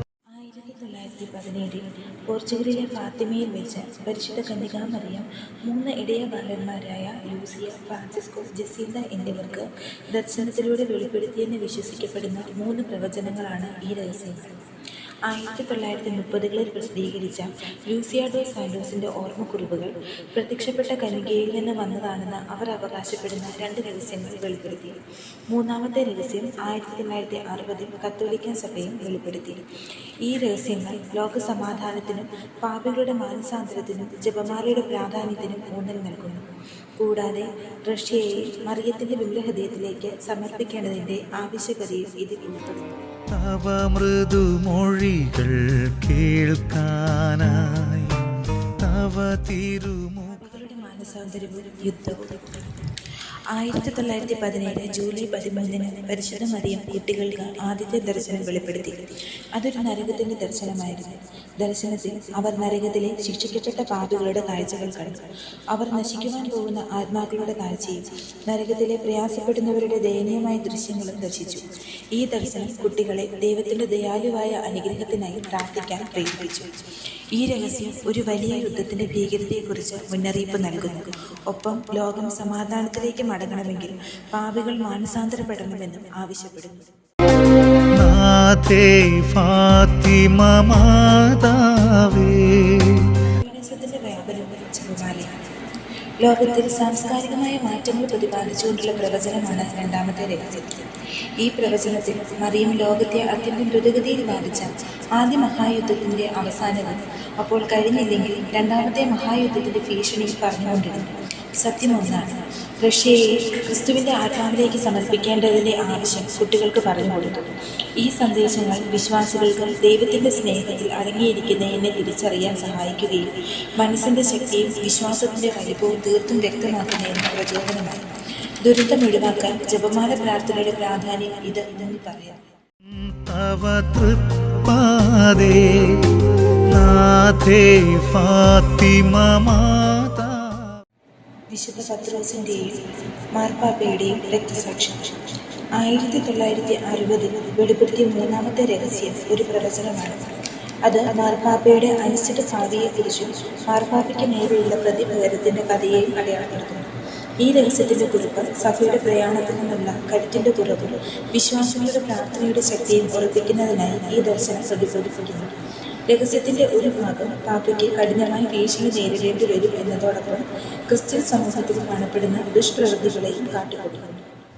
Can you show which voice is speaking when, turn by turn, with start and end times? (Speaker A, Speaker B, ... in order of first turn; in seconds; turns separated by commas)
Speaker A: 0.3-43.0, Speaker B: 43.3-50.5, Speaker A: 50.3-86.9, Speaker B: 87.9-93.2, Speaker A: 93.2-132.5, Speaker B: 132.8-140.8, Speaker A: 141.5-174.3